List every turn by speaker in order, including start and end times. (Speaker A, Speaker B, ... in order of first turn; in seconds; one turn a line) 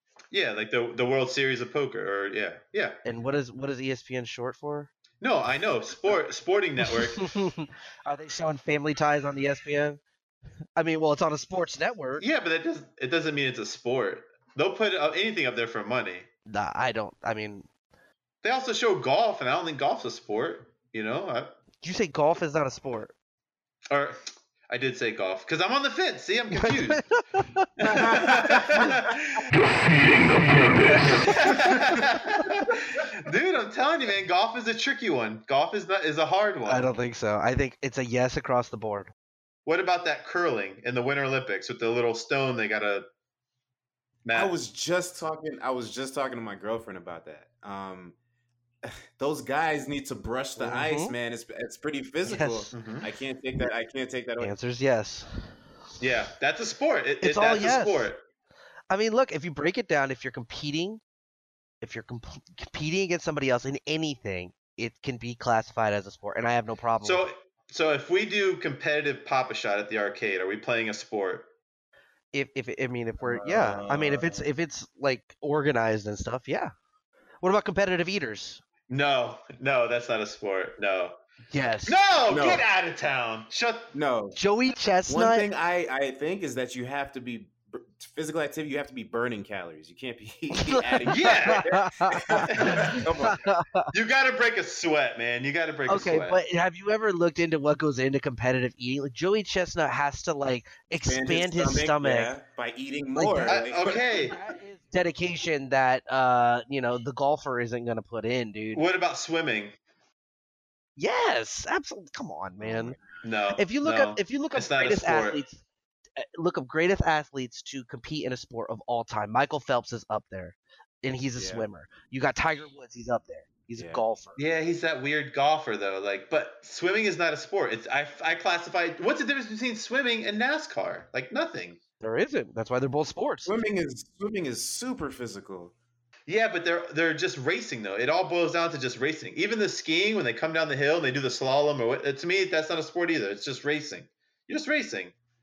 Speaker A: 0.3-3.0
Speaker B: 3.0-4.9
Speaker A: 5.2-7.3
Speaker B: 6.9-10.0
Speaker B: 10.8-12.2
Speaker A: 12.2-16.3
Speaker B: 16.5-17.7
Speaker A: 18.4-21.6
Speaker B: 21.8-23.1
Speaker A: 23.9-27.0
Speaker B: 26.5-28.1
Speaker A: 27.8-29.4
Speaker C: 28.0-28.9
Speaker A: 31.0-36.9
Speaker B: 36.6-39.1
Speaker A: 39.6-43.0
Speaker A: 44.2-44.6
Speaker C: 44.3-48.1
Speaker C: 48.8-54.5
Speaker B: 50.6-51.1
Speaker B: 52.2-52.7
Speaker A: 52.7-53.1
Speaker B: 54.4-55.3
Speaker A: 56.0-58.2
Speaker B: 57.2-58.1
Speaker B: 58.9-61.0
Speaker B: 61.8-67.2
Speaker A: 67.0-71.5
Speaker B: 72.3-76.7
Speaker C: 73.2-74.5
Speaker B: 77.4-78.6
Speaker A: 78.9-81.2
Speaker B: 81.5-82.0
Speaker A: 81.8-83.9
Speaker C: 82.3-82.7
Speaker C: 83.9-84.4
Speaker B: 84.3-85.5
Speaker C: 85.1-93.4
Speaker B: 90.6-93.9
Speaker A: 91.1-91.6
Speaker A: 92.5-92.9
Speaker A: 93.9-96.4
Speaker B: 95.9-102.3
Speaker C: 100.9-104.1
Speaker B: 103.2-108.8
Speaker A: 103.5-104.3
Speaker A: 108.7-109.7
Speaker B: 111.0-113.0
Speaker C: 112.6-113.0
Speaker A: 113.2-115.4
Speaker B: 113.5-115.6
Speaker B: 116.2-124.4
Speaker C: 121.3-121.7
Speaker C: 123.8-124.0
Speaker A: 124.4-131.8
Speaker B: 132.0-133.6
Speaker C: 133.4-135.7
Speaker A: 136.3-145.1